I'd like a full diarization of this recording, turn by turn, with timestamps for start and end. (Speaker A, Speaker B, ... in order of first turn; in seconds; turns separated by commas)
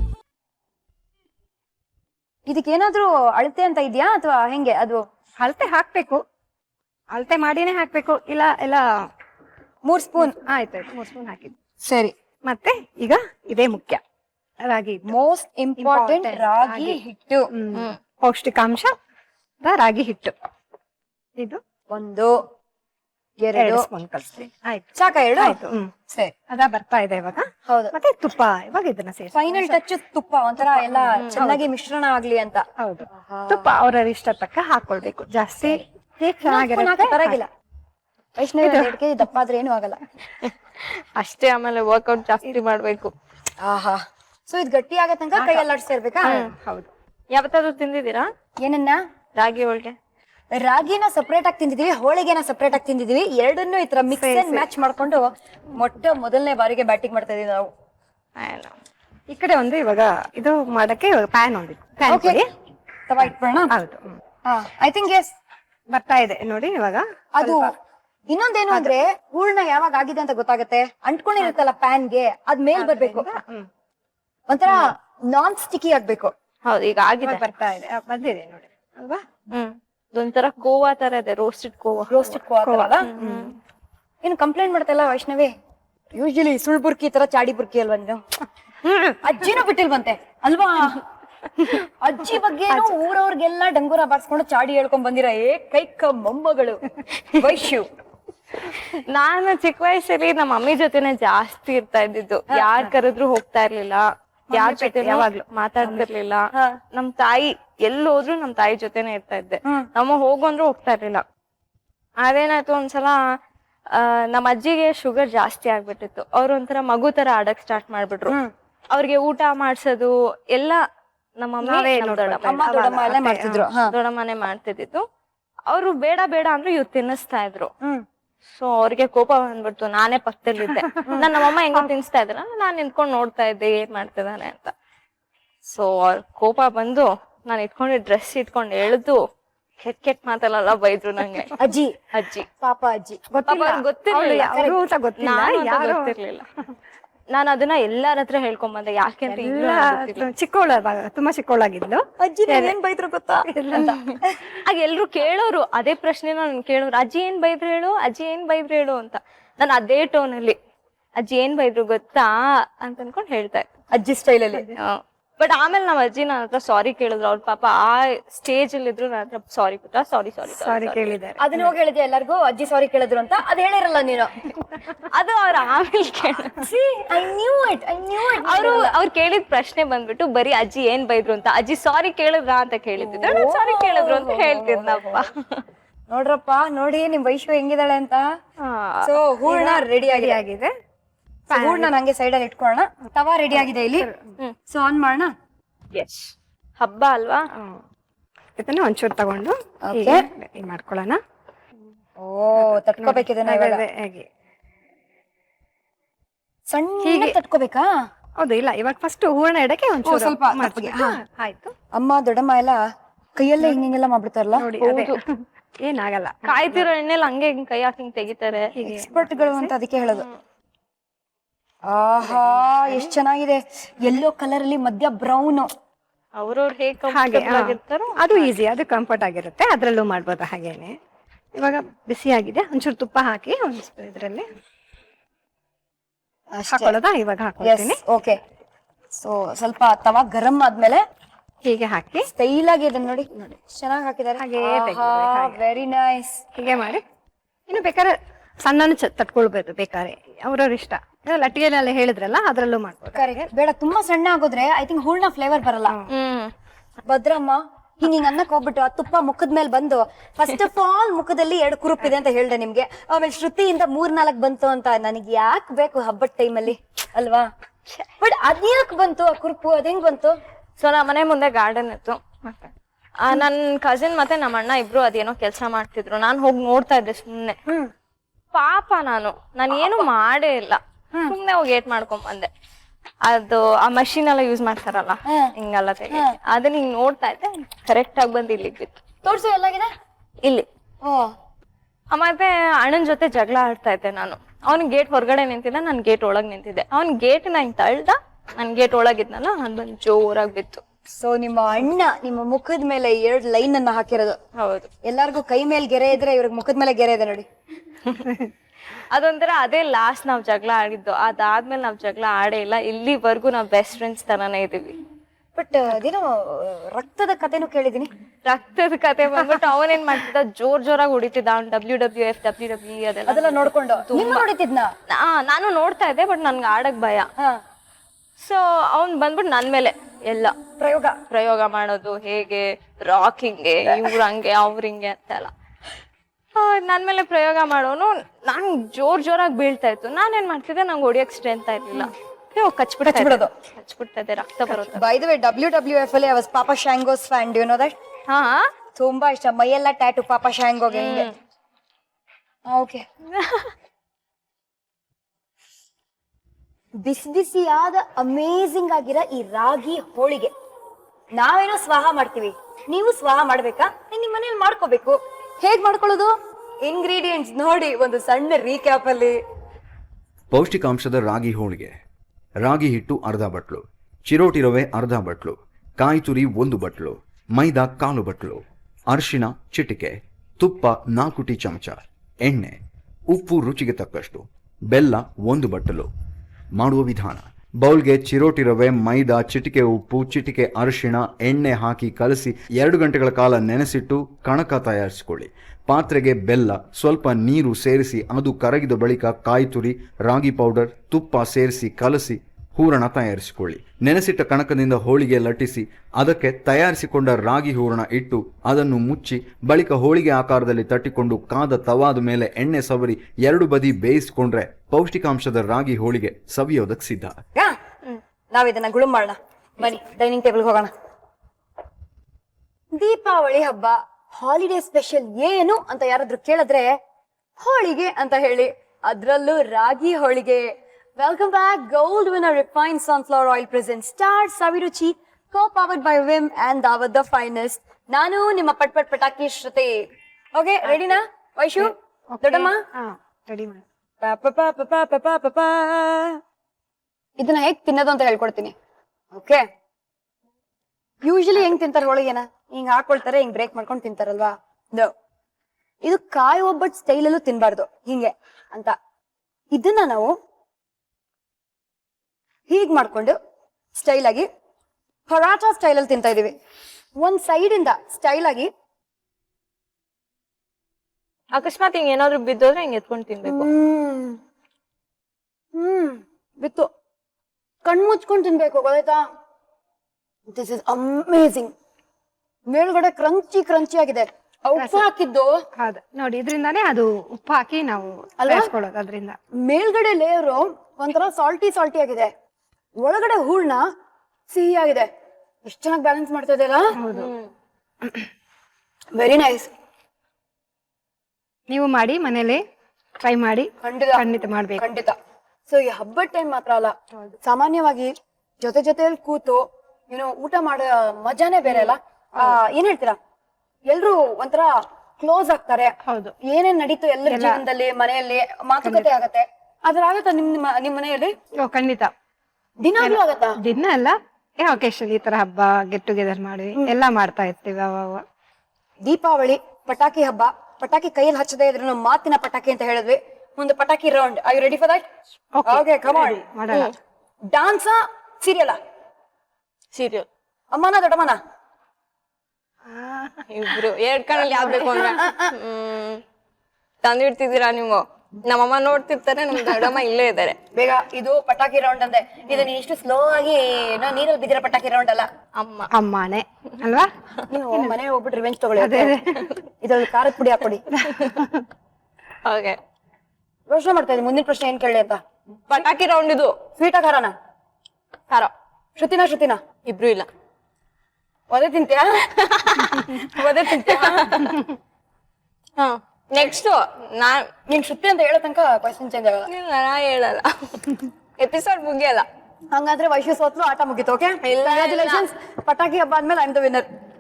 Speaker A: 2.5-5.0, Speaker B: 5.4-6.2, Speaker B: 7.1-9.1, Speaker A: 9.8-10.4, Speaker B: 10.2-11.5, Speaker A: 11.8-12.1, Speaker B: 12.4-14.0, Speaker B: 14.6-15.1, Speaker A: 15.1-17.5, Speaker B: 15.8-17.0, Speaker B: 17.5-18.9, Speaker B: 19.6-20.3, Speaker A: 21.9-22.4, Speaker A: 23.4-23.9, Speaker B: 23.5-25.9, Speaker A: 24.9-25.6, Speaker B: 26.5-29.8, Speaker A: 27.6-27.9, Speaker A: 29.3-33.7, Speaker B: 30.7-31.6, Speaker C: 31.2-31.4, Speaker B: 32.8-37.4, Speaker A: 36.5-37.5, Speaker A: 38.4-40.0, Speaker B: 38.6-39.0, Speaker C: 40.4-43.1, Speaker A: 43.6-46.4, Speaker B: 45.3-45.6, Speaker B: 46.2-46.9, Speaker C: 46.2-46.5, Speaker C: 47.3-48.3, Speaker A: 48.6-49.0, Speaker C: 49.4-50.0, Speaker A: 50.5-57.7, Speaker B: 54.2-54.6, Speaker C: 58.4-58.7, Speaker B: 59.3-62.5, Speaker A: 62.1-62.4, Speaker A: 63.1-63.7, Speaker B: 63.2-64.2, Speaker A: 64.4-65.3, Speaker B: 65.9-67.7, Speaker A: 67.3-67.7, Speaker A: 68.3-73.3, Speaker B: 72.7-73.7, Speaker A: 74.5-76.3, Speaker C: 76.6-77.4, Speaker B: 77.2-79.2, Speaker C: 79.5-82.4, Speaker A: 82.1-83.1, Speaker B: 82.6-83.5, Speaker C: 83.0-83.5, Speaker A: 84.2-85.5, Speaker A: 86.1-88.2, Speaker A: 89.0-91.0, Speaker A: 91.6-97.8, Speaker C: 98.6-111.2, Speaker A: 104.5-105.3, Speaker C: 112.2-113.2, Speaker C: 113.9-118.3, Speaker C: 118.9-120.8, Speaker C: 121.4-122.6, Speaker B: 121.6-123.7, Speaker A: 122.4-123.9, Speaker C: 123.9-125.0, Speaker C: 125.7-127.7, Speaker C: 128.5-134.7, Speaker C: 135.7-139.2, Speaker C: 139.8-142.5, Speaker A: 141.6-141.9, Speaker A: 142.6-143.2, Speaker B: 143.3-146.2, Speaker C: 143.5-144.5, Speaker A: 144.5-144.8, Speaker C: 145.2-146.4, Speaker C: 147.3-150.3, Speaker B: 149.3-152.7, Speaker A: 152.2-154.3, Speaker B: 153.5-153.9, Speaker C: 153.7-160.6, Speaker C: 161.2-163.7, Speaker A: 163.9-164.7, Speaker C: 164.8-171.2, Speaker B: 170.5-171.7, Speaker A: 171.4-174.3, Speaker C: 174.9-176.6, Speaker A: 176.6-178.9, Speaker C: 178.2-185.6, Speaker A: 183.0-185.2, Speaker A: 186.1-188.3, Speaker C: 188.6-189.2, Speaker A: 189.0-190.4, Speaker B: 189.5-190.7, Speaker A: 191.5-194.1, Speaker B: 191.5-191.9, Speaker B: 193.6-194.3, Speaker A: 194.7-195.3, Speaker C: 195.9-197.4, Speaker B: 197.5-197.8, Speaker B: 198.6-201.2, Speaker A: 199.8-200.2, Speaker A: 202.2-203.8, Speaker B: 202.6-204.3, Speaker A: 206.7-207.9, Speaker B: 207.0-207.4, Speaker B: 208.4-211.7, Speaker A: 210.0-211.1, Speaker A: 211.9-212.8, Speaker A: 213.3-214.7, Speaker B: 214.6-216.9, Speaker C: 214.8-215.2, Speaker C: 216.4-218.7, Speaker B: 218.7-219.7, Speaker A: 218.8-220.2, Speaker C: 220.1-220.4, Speaker A: 221.8-225.7, Speaker B: 222.5-223.0, Speaker C: 226.4-228.5, Speaker B: 227.1-230.9, Speaker B: 231.5-234.5, Speaker A: 236.5-236.9, Speaker B: 236.7-238.0, Speaker A: 237.6-238.4, Speaker A: 239.2-241.0, Speaker B: 241.6-242.3, Speaker A: 242.2-246.4, Speaker B: 244.4-245.6, Speaker B: 246.5-247.0, Speaker B: 247.7-253.5, Speaker A: 253.1-255.9, Speaker C: 256.1-256.5, Speaker A: 257.1-267.5, Speaker A: 268.2-270.4, Speaker C: 270.8-272.2, Speaker C: 273.2-277.6, Speaker C: 278.5-282.5, Speaker C: 283.2-289.0, Speaker A: 289.2-289.9, Speaker C: 292.1-300.8, Speaker A: 301.2-304.4, Speaker C: 304.6-304.9, Speaker A: 305.0-307.4, Speaker C: 308.1-308.4, Speaker C: 309.1-315.0, Speaker A: 315.6-318.1, Speaker C: 318.4-324.4, Speaker A: 323.3-324.9, Speaker C: 325.1-327.3, Speaker C: 328.4-330.5, Speaker A: 330.8-331.2, Speaker C: 331.3-335.5, Speaker C: 336.5-345.1, Speaker A: 343.1-343.5, Speaker A: 344.8-347.9, Speaker C: 348.3-348.6, Speaker A: 348.9-351.3, Speaker C: 350.9-351.3, Speaker A: 352.6-353.0, Speaker C: 353.3-353.7, Speaker A: 357.0-360.5, Speaker A: 361.3-369.4, Speaker D: 370.5-371.9, Speaker D: 372.6-386.1, Speaker D: 386.7-417.4, Speaker A: 418.5-420.9, Speaker A: 422.9-426.9, Speaker A: 427.6-440.0, Speaker A: 440.6-442.8, Speaker B: 441.8-443.8, Speaker A: 444.2-446.4, Speaker A: 447.4-448.7, Speaker A: 449.3-449.6, Speaker A: 451.2-455.1, Speaker A: 456.0-458.9, Speaker A: 459.7-460.3, Speaker A: 462.7-463.4, Speaker A: 463.9-464.5, Speaker A: 465.3-466.5, Speaker A: 467.2-468.7, Speaker C: 471.5-473.7, Speaker A: 473.4-474.4, Speaker A: 475.7-476.9, Speaker A: 477.8-479.2, Speaker A: 480.5-481.7, Speaker A: 482.7-485.5, Speaker B: 484.8-485.1, Speaker B: 485.8-489.4, Speaker A: 488.4-488.7, Speaker A: 489.6-492.3, Speaker A: 493.0-493.8, Speaker A: 494.5-495.1, Speaker A: 495.6-497.0, Speaker B: 497.0-497.3, Speaker C: 497.1-497.5, Speaker A: 499.1-499.7, Speaker B: 501.7-502.6, Speaker B: 503.2-504.9, Speaker A: 503.8-505.1, Speaker A: 505.7-513.2, Speaker A: 513.9-521.3, Speaker B: 516.0-516.3, Speaker B: 517.3-517.6, Speaker B: 518.8-519.1, Speaker B: 521.6-522.1, Speaker A: 522.8-523.6, Speaker B: 523.0-528.2, Speaker A: 529.0-535.0, Speaker B: 535.5-536.9, Speaker A: 535.6-536.4, Speaker C: 536.7-536.9, Speaker A: 537.5-538.8, Speaker C: 539.9-540.2, Speaker A: 540.7-541.4, Speaker B: 542.9-543.5, Speaker C: 543.5-546.2, Speaker A: 544.7-545.5, Speaker C: 547.0-550.6, Speaker A: 550.7-555.3, Speaker C: 555.5-555.9, Speaker B: 555.9-557.1, Speaker A: 557.5-559.2, Speaker B: 558.8-559.4, Speaker A: 559.8-560.8, Speaker C: 561.0-561.4, Speaker B: 561.4-561.6, Speaker C: 562.4-562.8, Speaker A: 563.7-565.2, Speaker C: 565.7-566.6, Speaker A: 566.8-567.3, Speaker A: 569.0-569.6, Speaker C: 569.8-570.3, Speaker A: 571.5-572.1, Speaker C: 572.3-573.2, Speaker A: 572.9-574.5, Speaker C: 573.7-574.6, Speaker C: 575.8-577.5, Speaker A: 577.7-579.5, Speaker C: 579.4-582.2, Speaker A: 582.7-586.9, Speaker C: 584.4-585.3